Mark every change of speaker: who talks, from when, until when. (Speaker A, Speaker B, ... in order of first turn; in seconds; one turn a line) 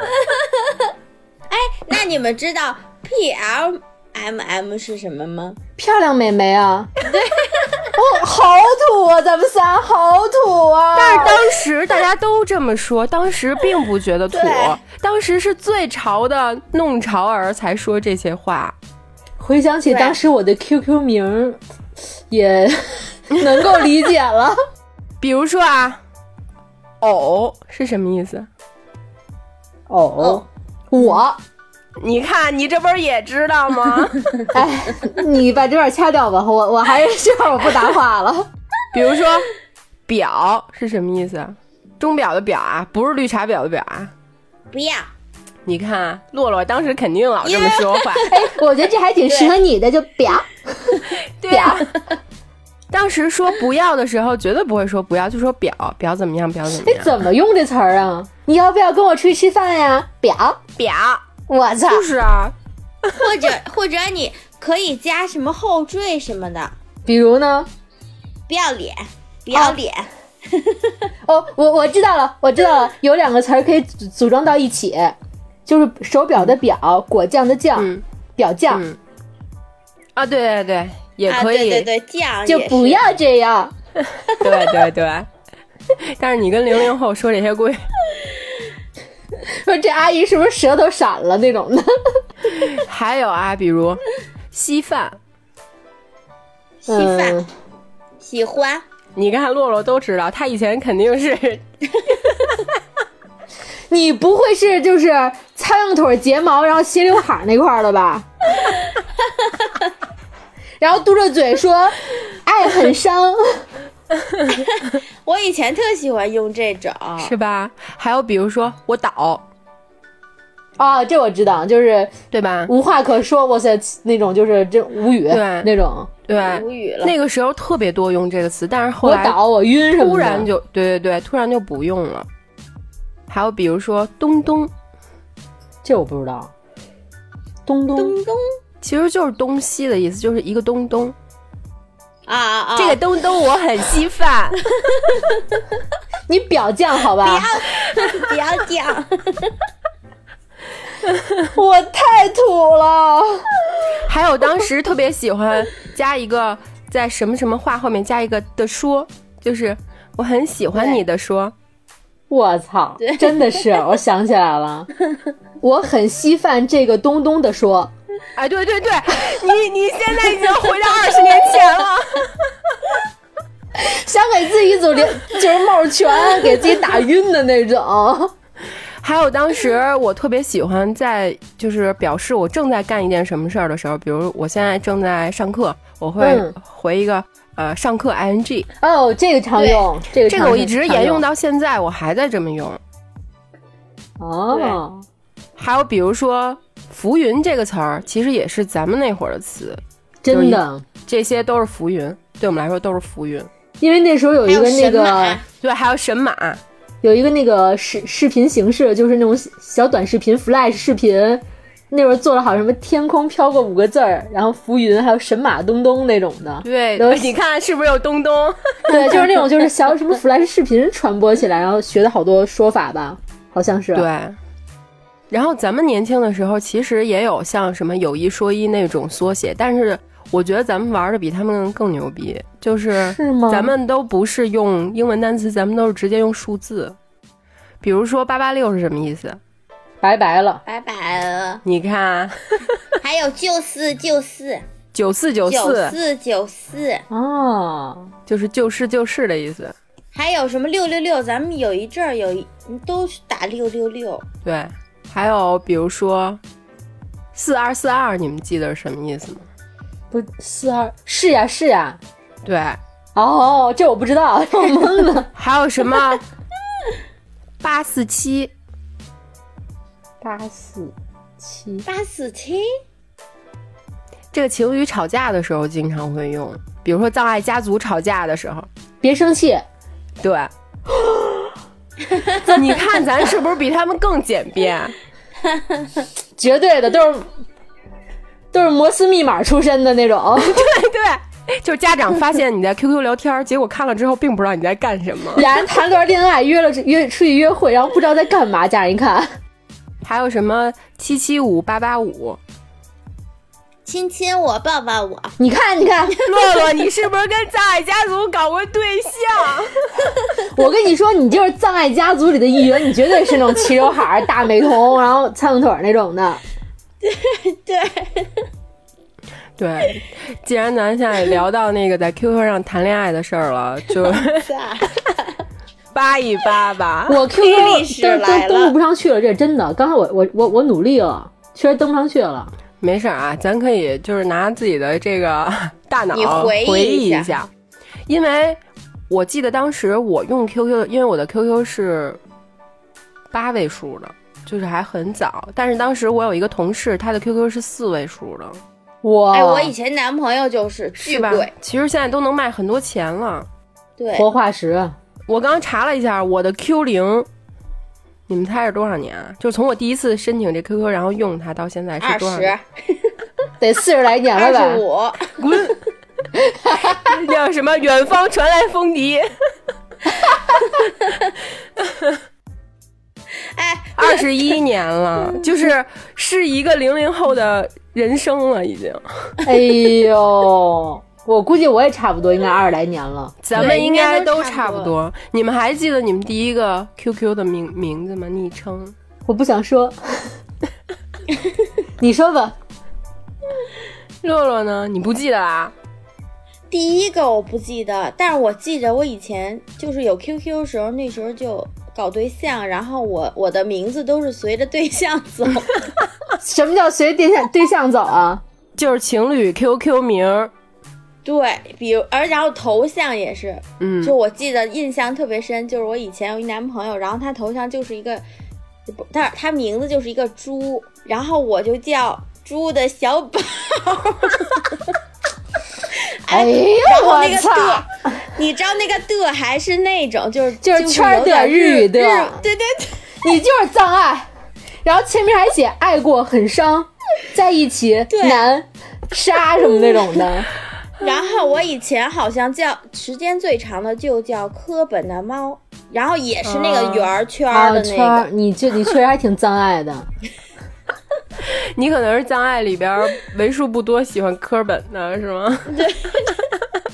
Speaker A: 0.2-0.5
Speaker A: 1.5-5.6
Speaker B: 5.8-6.9
Speaker A: 7.0-7.9
Speaker B: 7.9-11.4
Speaker C: 10.9-18.8
Speaker A: 14.3-14.8
Speaker B: 19.4-21.6
Speaker A: 19.9-20.1
Speaker B: 22.3-24.6
Speaker C: 25.2-26.0
Speaker C: 27.0-28.5
Speaker B: 29.9-31.4
Speaker C: 32.0-34.3
Speaker B: 34.5-38.5
Speaker C: 38.9-39.5
Speaker C: 40.1-44.1
Speaker A: 44.7-45.1
Speaker C: 45.6-48.3
Speaker A: 47.4-48.5
Speaker B: 48.3-51.9
Speaker A: 49.3-49.5
Speaker C: 51.4-51.9
Speaker C: 52.9-57.2
Speaker B: 56.8-60.6
Speaker C: 60.8-61.2
Speaker B: 61.5-62.1
Speaker C: 61.9-63.3
Speaker A: 63.1-66.7
Speaker B: 67.0-67.7
Speaker A: 68.5-71.1
Speaker B: 71.2-75.2
Speaker B: 75.7-78.8
Speaker C: 77.8-78.0
Speaker C: 78.7-79.0
Speaker C: 80.2-81.9
Speaker A: 81.3-83.0
Speaker B: 82.5-83.7
Speaker C: 84.3-85.3
Speaker C: 86.0-87.8
Speaker B: 89.5-92.2
Speaker C: 92.5-95.2
Speaker A: 96.8-97.4
Speaker B: 96.9-97.5
Speaker A: 98.2-98.8
Speaker C: 99.2-101.6
Speaker B: 103.9-108.3
Speaker B: 110.8-113.6
Speaker A: 114.5-117.3
Speaker C: 117.2-119.4
Speaker B: 120.8-122.1
Speaker C: 122.3-122.7
Speaker B: 122.7-126.1
Speaker C: 125.3-125.7
Speaker C: 126.3-129.4
Speaker A: 126.3-127.1
Speaker B: 129.0-130.5
Speaker C: 129.9-132.3
Speaker C: 133.3-134.7
Speaker B: 135.8-136.5
Speaker B: 137.7-138.1
Speaker A: 137.9-138.6
Speaker C: 138.8-141.1
Speaker A: 142.3-143.0
Speaker C: 142.8-144.6
Speaker A: 144.8-145.4
Speaker B: 146.3-147.5
Speaker A: 147.2-149.5
Speaker B: 151.5-153.5
Speaker C: 154.0-161.5
Speaker B: 162.3-164.9
Speaker A: 163.0-163.6
Speaker B: 165.6-167.9
Speaker C: 168.3-172.4
Speaker B: 173.7-178.3
Speaker C: 179.0-188.7
Speaker B: 186.2-186.5
Speaker B: 188.8-191.2
Speaker A: 189.6-189.8
Speaker C: 190.3-192.8
Speaker B: 194.2-195.0
Speaker A: 194.5-194.8
Speaker C: 195.6-203.5
Speaker B: 200.2-200.8
Speaker B: 203.8-205.4
Speaker A: 204.5-205.4
Speaker C: 205.6-206.6
Speaker B: 207.0-217.3
Speaker C: 216.6-219.2
Speaker B: 218.9-224.1
Speaker C: 223.9-224.4
Speaker C: 225.3-237.0
Speaker B: 232.9-233.7
Speaker C: 237.8-239.4
Speaker B: 240.0-240.6
Speaker A: 240.7-241.6
Speaker C: 241.6-242.8
Speaker A: 243.0-244.6
Speaker C: 244.9-245.9
Speaker A: 245.4-247.0
Speaker B: 247.1-248.1
Speaker C: 248.3-249.7
Speaker A: 250.1-254.2
Speaker C: 254.4-256.4
Speaker C: 257.3-259.5
Speaker B: 260.1-262.0
Speaker C: 262.4-262.8
Speaker B: 263.1-265.3
Speaker C: 265.3-266.2
Speaker C: 267.6-268.5
Speaker B: 270.2-271.8
Speaker A: 271.9-272.7
Speaker C: 274.3-278.7
Speaker B: 279.0-279.6
Speaker C: 280.2-280.5
Speaker B: 280.9-281.5
Speaker A: 282.1-282.4
Speaker C: 282.4-284.9
Speaker B: 286.4-287.3
Speaker B: 288.5-290.6
Speaker C: 290.4-295.5
Speaker B: 295.4-299.3
Speaker C: 300.0-302.4
Speaker A: 303.9-305.3
Speaker B: 305.4-306.2
Speaker A: 306.2-306.7
Speaker C: 306.2-309.9
Speaker B: 310.4-316.4
Speaker A: 317.0-318.5
Speaker C: 319.6-324.5
Speaker A: 324.0-325.4
Speaker C: 325.9-327.3
Speaker B: 327.1-332.5
Speaker A: 327.3-328.7
Speaker C: 332.8-337.5
Speaker A: 336.1-337.3
Speaker C: 338.1-342.2
Speaker C: 343.3-348.6
Speaker B: 349.0-349.7
Speaker A: 349.3-351.5
Speaker C: 350.9-353.5
Speaker A: 354.0-354.3
Speaker B: 354.1-355.0
Speaker C: 355.3-357.3
Speaker C: 358.3-362.5
Speaker A: 362.0-363.1
Speaker B: 363.6-364.8
Speaker A: 364.4-365.4
Speaker C: 365.4-365.8
Speaker B: 366.3-367.1
Speaker C: 367.0-369.3
Speaker A: 373.4-374.6
Speaker C: 374.0-379.0
Speaker B: 379.4-383.6
Speaker C: 383.4-388.9
Speaker A: 383.5-384.9
Speaker B: 389.2-390.3
Speaker B: 392.0-392.6
Speaker C: 394.2-395.7
Speaker A: 396.7-405.9
Speaker B: 406.4-408.4
Speaker C: 408.8-410.5
Speaker A: 411.2-418.2
Speaker C: 413.8-414.1
Speaker A: 418.9-424.9
Speaker A: 425.9-433.2
Speaker B: 426.3-428.2
Speaker B: 430.6-432.4
Speaker B: 433.2-434.3
Speaker B: 434.8-440.5
Speaker A: 438.1-438.5
Speaker A: 441.0-448.3
Speaker C: 446.4-447.1
Speaker B: 447.5-450.1
Speaker C: 451.5-455.9
Speaker A: 455.7-456.4